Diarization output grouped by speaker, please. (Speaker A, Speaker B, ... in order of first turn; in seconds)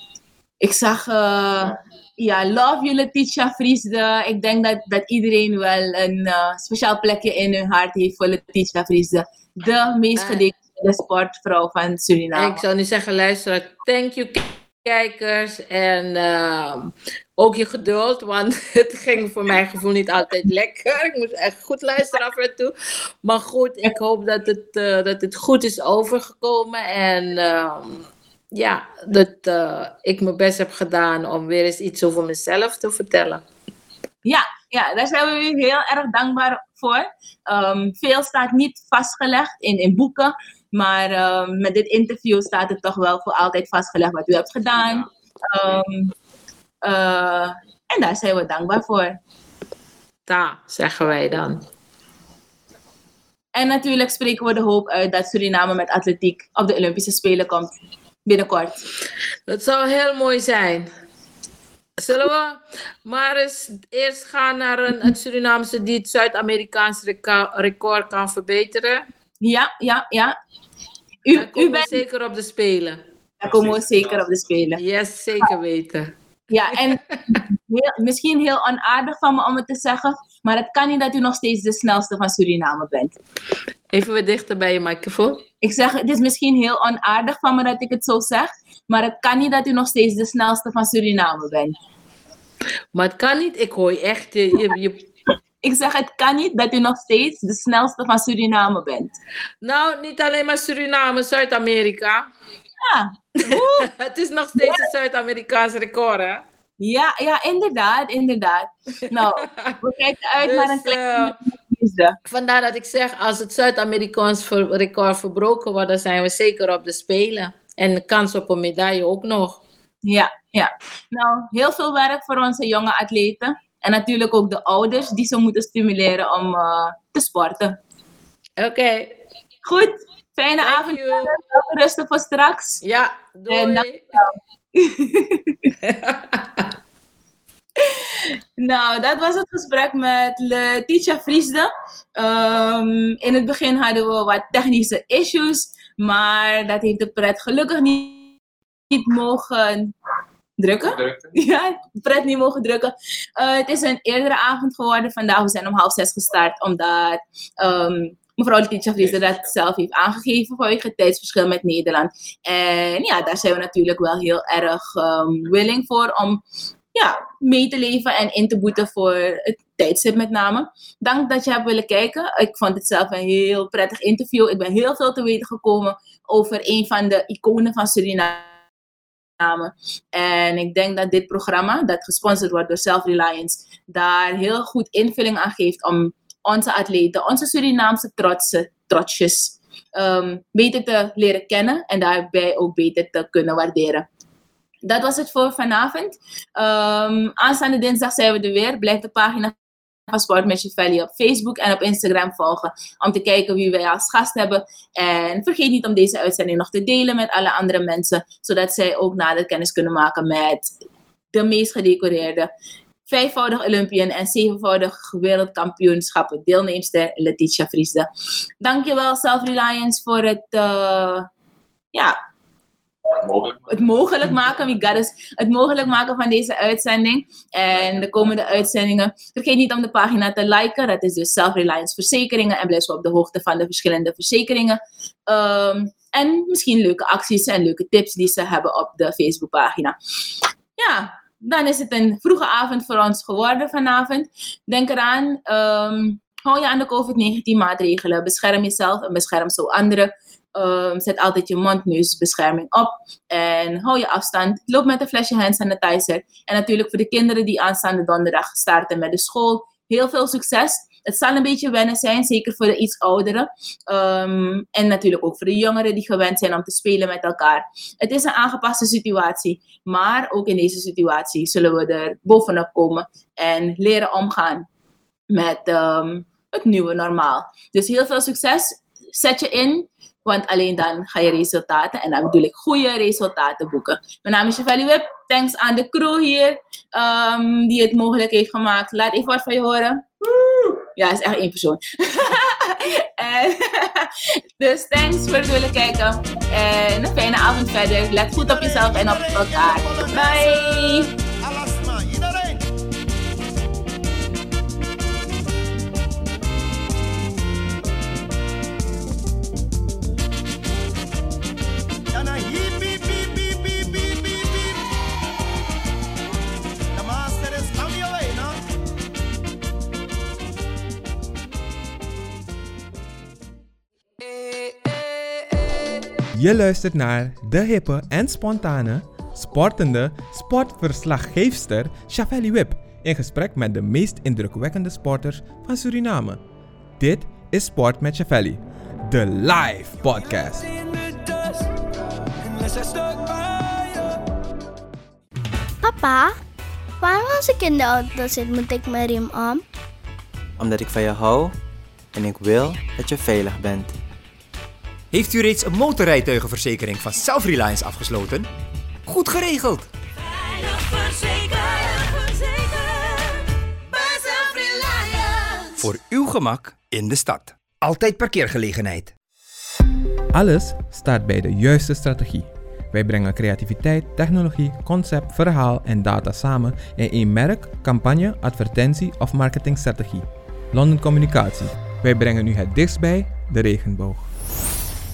Speaker A: 0.6-12.6, 34.2-46.1, 46.8-49.2, 53.5-57.7, 58.3-58.8, 69.4-70.3, 71.2-72.0, 73.4-74.8, 76.5-83.2, 85.6-91.8, 95.6-99.1, 102.8-103.9, 106.8-112.2, 120.1-127.8, 129.6-132.8, 133.5-135.7, 137.8-148.3, 148.9-149.9, 150.6-166.4, 166.9-178.5, 179.4-194.1, 194.8-199.6, 200.1-210.7, 211.3-212.5, 213.1-218.1, 218.6-221.3, 223.4-240.0, 240.8-274.6, 275.3-301.1
Speaker B: 10.2-10.5, 12.3-33.4, 50.3-51.6, 59.5-60.9, 62.0-69.0, 71.3-73.0, 74.8-76.1, 76.7-77.4, 83.9-85.4, 92.9-95.1, 99.6-102.3, 103.4-106.4, 109.2-109.8, 110.4-111.3, 112.3-119.6, 128.6-129.2, 130.6-131.3, 132.8-134.0, 135.8-136.7
Speaker C: 324.6-324.9, 341.0-341.6, 342.4-344.2, 360.2-365.9
Speaker D: 326.3-336.4, 337.0-340.7, 370.3-384.3
Speaker E: 345.8-346.4, 347.0-349.6
Speaker F: 350.6-351.5, 352.1-353.9
Speaker G: 355.1-358.5, 359.1-359.9, 365.8-369.1